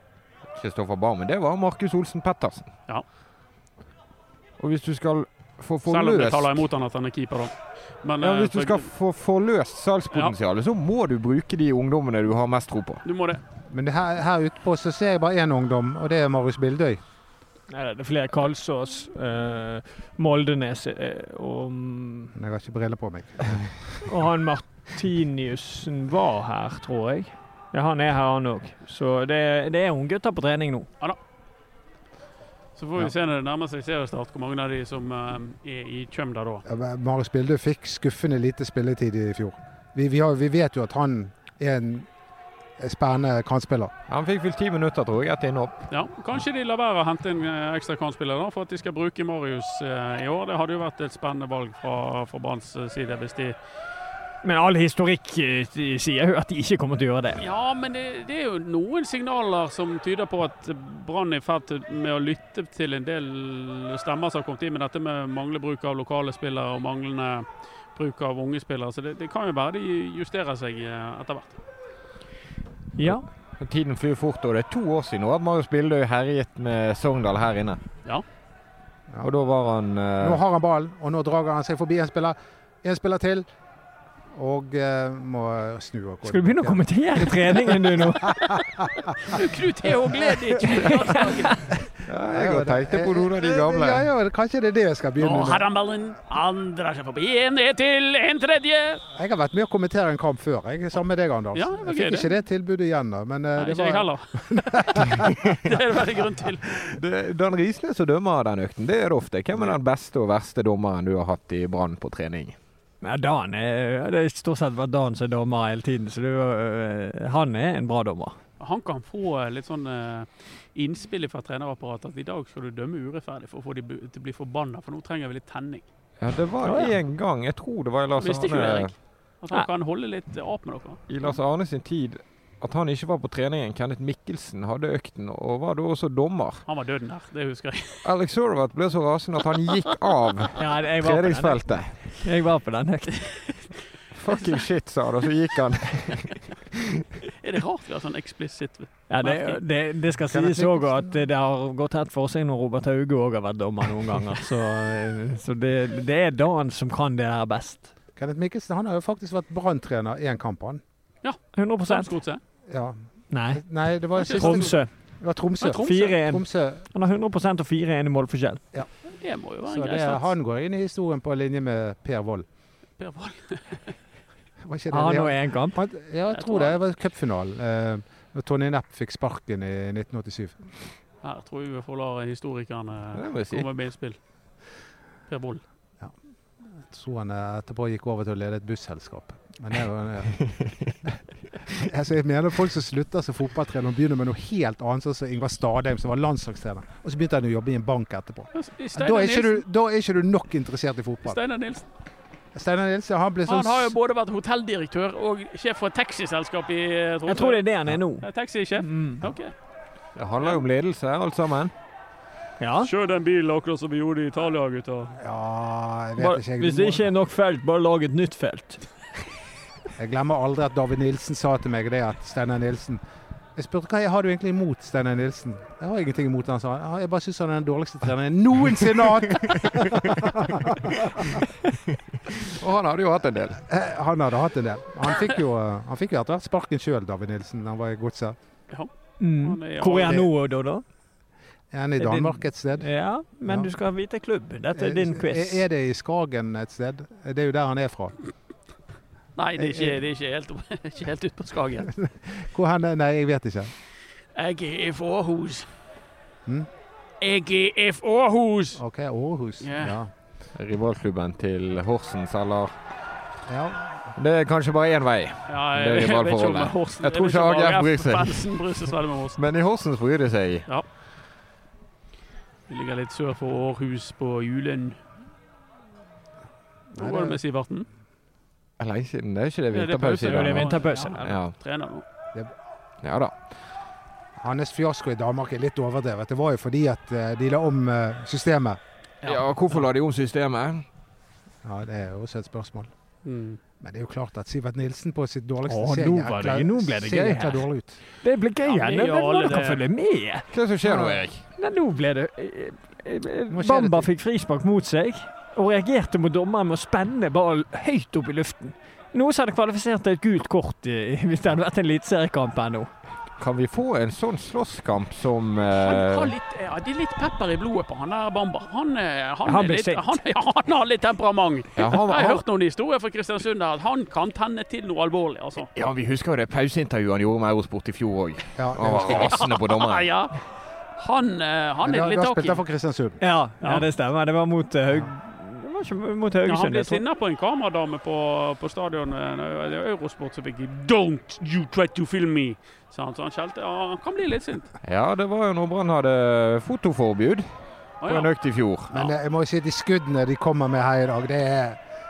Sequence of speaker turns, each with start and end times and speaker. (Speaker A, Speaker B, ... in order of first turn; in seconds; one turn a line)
Speaker A: 0.5-2.7
Speaker A: 4.6-6.6
Speaker B: 5.9-8.9
Speaker A: 8.2-13.0
Speaker B: 13.0-13.4
Speaker C: 13.7-17.0
Speaker D: 17.7-22.3
Speaker C: 22.3-24.1
Speaker D: 24.0-30.9
Speaker B: 32.8-36.6
Speaker C: 36.6-42.1
Speaker C: 42.8-43.9
Speaker A: 44.1-45.7
Speaker B: 45.9-53.6
Speaker D: 54.4-57.4
Speaker B: 57.4-71.6
Speaker D: 73.0-73.2
Speaker A: 73.0-77.8
Speaker A: 79.2-80.4
Speaker C: 80.2-83.5
Speaker C: 84.3-86.8
Speaker D: 86.2-88.5
Speaker C: 87.5-89.0
Speaker B: 89.3-91.6
Speaker C: 90.1-91.1
Speaker D: 90.9-91.5
Speaker A: 92.0-94.1
Speaker C: 92.3-95.7
Speaker B: 95.2-99.0
Speaker C: 99.2-105.5
Speaker B: 101.5-102.3
Speaker B: 103.5-106.8
Speaker A: 106.9-112.6
Speaker D: 113.0-118.4
Speaker B: 118.6-125.8
Speaker A: 126.2-128.9
Speaker D: 126.6-126.9
Speaker B: 128.2-131.0
Speaker A: 131.1-136.6
Speaker B: 136.7-138.0
Speaker A: 138.0-142.1
Speaker D: 140.6-141.6
Speaker D: 142.2-143.5
Speaker A: 144.1-146.9
Speaker B: 147.4-149.6
Speaker D: 149.1-157.9
Speaker C: 150.3-151.1
Speaker C: 158.2-160.8
Speaker B: 161.2-162.4
Speaker D: 161.5-162.2
Speaker C: 162.7-162.9
Speaker D: 163.3-163.6
Speaker C: 163.5-166.8
Speaker B: 164.2-164.8
Speaker D: 164.3-164.9
Speaker B: 165.6-166.2
Speaker D: 165.8-168.6
Speaker B: 169.2-170.3
Speaker C: 169.7-172.4
Speaker B: 173.0-173.9
Speaker C: 174.6-180.7
Speaker D: 174.9-175.8
Speaker B: 176.3-176.8
Speaker B: 181.2-184.2
Speaker A: 183.1-183.7
Speaker B: 185.3-185.6
Speaker C: 186.8-191.2
Speaker C: 191.7-201.4
Speaker B: 198.5-199.6
Speaker B: 201.2-201.8
Speaker C: 202.5-203.9
Speaker B: 203.4-209.5
Speaker D: 207.3-208.2
Speaker D: 208.8-209.3
Speaker A: 210.2-211.7
Speaker B: 210.4-210.6
Speaker D: 212.6-212.9
Speaker B: 212.8-215.2
Speaker C: 215.2-217.1
Speaker D: 216.2-218.8
Speaker C: 220.0-223.0
Speaker C: 223.5-231.4
Speaker A: 232.4-233.6
Speaker C: 233.7-238.3
Speaker B: 238.7-240.2
Speaker D: 239.2-240.8
Speaker C: 240.0-240.3
Speaker C: 241.7-242.9
Speaker D: 242.0-245.6
Speaker C: 243.4-243.7
Speaker C: 244.7-248.2
Speaker B: 249.3-251.9
Speaker C: 249.6-250.0
Speaker C: 251.9-253.7
Speaker B: 254.3-255.7
Speaker B: 257.2-258.8
Speaker C: 258.8-260.1
Speaker B: 259.6-260.0
Speaker A: 260.5-262.8
Speaker C: 263.5-264.1
Speaker A: 264.1-268.6
Speaker B: 265.5-269.4
Speaker A: 269.3-270.7
Speaker B: 272.7-275.0
Speaker C: 276.9-277.4
Speaker B: 277.0-277.9
Speaker A: 278.8-281.5
Speaker B: 279.7-282.0
Speaker D: 280.3-281.4
Speaker A: 283.0-283.3
Speaker C: 284.4-288.8
Speaker A: 289.2-290.8
Speaker C: 291.6-292.9
Speaker B: 293.2-293.6
Speaker C: 293.8-298.0
Speaker D: 295.7-297.6
Speaker D: 298.2-300.4
Speaker B: 298.6-299.8
Speaker A: 300.5-301.5
Speaker C: 300.8-301.2
Speaker D: 301.6-312.9
Speaker C: 303.5-304.1
Speaker A: 313.4-316.3
Speaker B: 315.8-325.7
Speaker D: 319.4-320.1
Speaker A: 321.8-322.4
Speaker A: 325.7-330.1
Speaker C: 328.6-329.3
Speaker B: 328.9-330.4
Speaker B: 331.0-332.6
Speaker C: 331.8-333.2
Speaker D: 333.2-337.0
Speaker B: 333.6-333.9
Speaker B: 336.4-344.7
Speaker A: 344.8-347.5
Speaker B: 348.0-348.3
Speaker A: 348.0-348.9
Speaker C: 348.9-351.8